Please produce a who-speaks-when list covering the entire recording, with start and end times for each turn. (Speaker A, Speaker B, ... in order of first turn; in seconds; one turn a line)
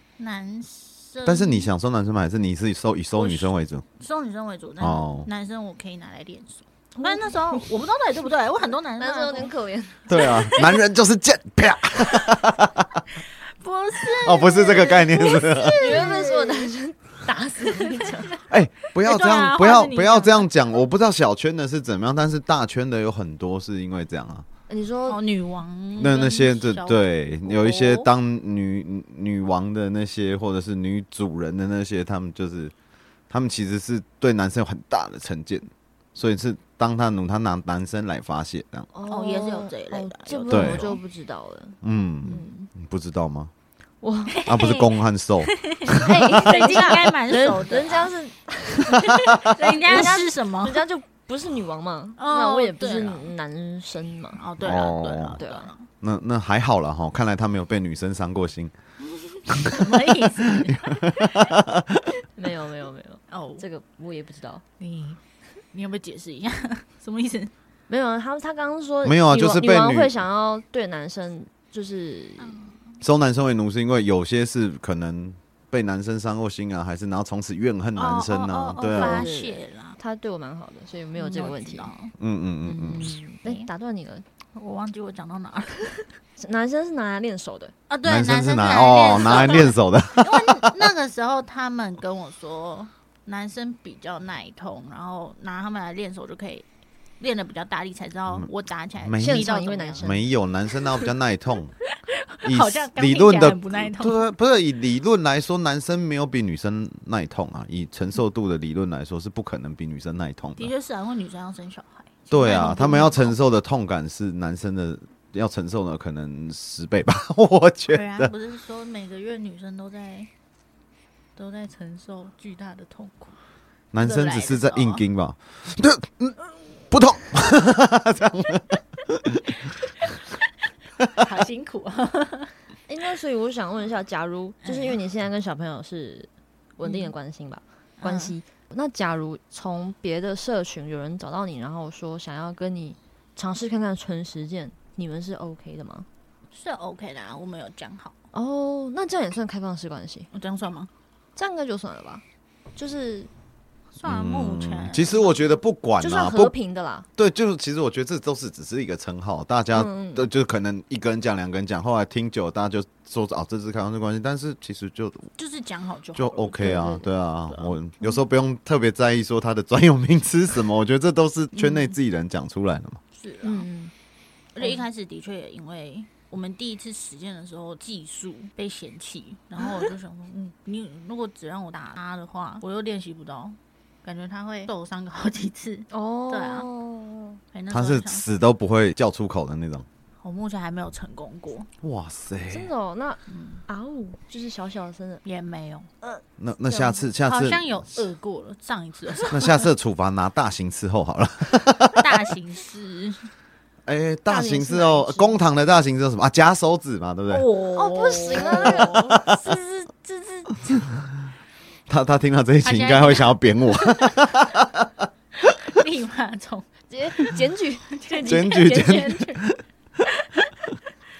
Speaker A: 0.2-1.7
Speaker B: 1.2-3.8
Speaker A: 3.1-9.5
Speaker B: 4.8-5.3
Speaker C: 7.0-7.6
Speaker C: 9.0-10.5
Speaker B: 10.1-13.0
Speaker A: 10.1-10.8
Speaker A: 13.2-16.7
Speaker B: 14.1-16.0
Speaker C: 15.2-18.4
Speaker A: 17.7-18.4
Speaker B: 18.5-24.5
Speaker A: 19.0-20.5
Speaker C: 24.7-25.2
Speaker A: 25.1-28.1
Speaker B: 26.0-32.7
Speaker B: 33.3-38.9
Speaker C: 38.9-42.6
Speaker A: 39.1-41.0
Speaker B: 40.5-40.9
Speaker B: 41.8-43.5
Speaker A: 42.2-42.7
Speaker C: 44.0-44.7
Speaker A: 44.4-44.9
Speaker B: 44.5-46.8
Speaker A: 45.4-48.1
Speaker C: 46.0-54.4
Speaker A: 48.9-50.8
Speaker A: 52.2-53.3
Speaker A: 54.4-55.9
Speaker B: 54.6-55.4
Speaker C: 55.4-55.7
Speaker B: 56.0-58.7
Speaker B: 59.5-62.1
Speaker A: 59.6-61.6
Speaker C: 62.4-64.6
Speaker A: 63.3-63.6
Speaker A: 64.8-65.2
Speaker A: 65.7-67.5
Speaker C: 67.9-72.6
Speaker B: 69.0-70.2
Speaker A: 72.4-72.8
Speaker B: 73.0-79.3
Speaker A: 78.0-80.0
Speaker C: 78.8-81.9
Speaker A: 81.2-82.1
Speaker B: 82.2-83.2
Speaker C: 82.7-84.2
Speaker A: 84.5-86.1
Speaker C: 86.4-87.7
Speaker A: 87.9-96.7
Speaker B: 88.0-90.9
Speaker A: 97.2-100.1
Speaker B: 99.0-99.5
Speaker C: 99.2-100.3
Speaker B: 100.0-101.7
Speaker A: 102.0-104.3
Speaker B: 102.4-110.7
Speaker A: 110.6-113.4
Speaker B: 112.3-118.3
Speaker A: 117.9-120.3
Speaker A: 121.4-123.4
Speaker B: 123.9-129.6
Speaker A: 124.0-125.0
Speaker A: 131.1-132.5
Speaker C: 132.9-146.1
Speaker A: 134.6-135.0
Speaker A: 136.8-137.1
Speaker A: 138.0-138.3
Speaker A: 146.5-148.2
Speaker C: 148.3-150.3
Speaker A: 150.3-150.9
Speaker C: 151.4-152.2
Speaker C: 152.8-153.3
Speaker A: 154.0-155.5
Speaker B: 154.0-156.5
Speaker C: 156.0-157.1
Speaker B: 157.2-165.3
Speaker C: 159.7-160.3
Speaker A: 165.4-167.8
Speaker B: 166.2-173.0
Speaker C: 166.6-167.1
Speaker A: 171.6-171.9
Speaker A: 173.1-173.7
Speaker C: 173.4-173.9
Speaker A: 174.6-186.7
Speaker C: 185.9-187.4
Speaker A: 187.5-188.2
Speaker B: 187.7-189.9
Speaker A: 190.2-191.7
Speaker B: 191.8-192.7
Speaker C: 192.5-195.2
Speaker A: 193.3-193.6
Speaker A: 195.2-196.0
Speaker B: 196.4-197.8
Speaker C: 196.7-197.1
Speaker A: 197.2-199.7
Speaker B: 199.3-202.3
Speaker A: 202.0-203.3
Speaker B: 203.9-207.5
Speaker C: 204.3-205.4
Speaker A: 207.3-210.9
Speaker C: 207.7-209.4
Speaker B: 208.8-209.4
Speaker B: 211.9-215.1
Speaker A: 212.6-214.2
Speaker A: 215.4-216.7
Speaker C: 216.9-219.4
Speaker A: 217.9-219.4
Speaker B: 218.2-219.6
Speaker A: 220.1-220.5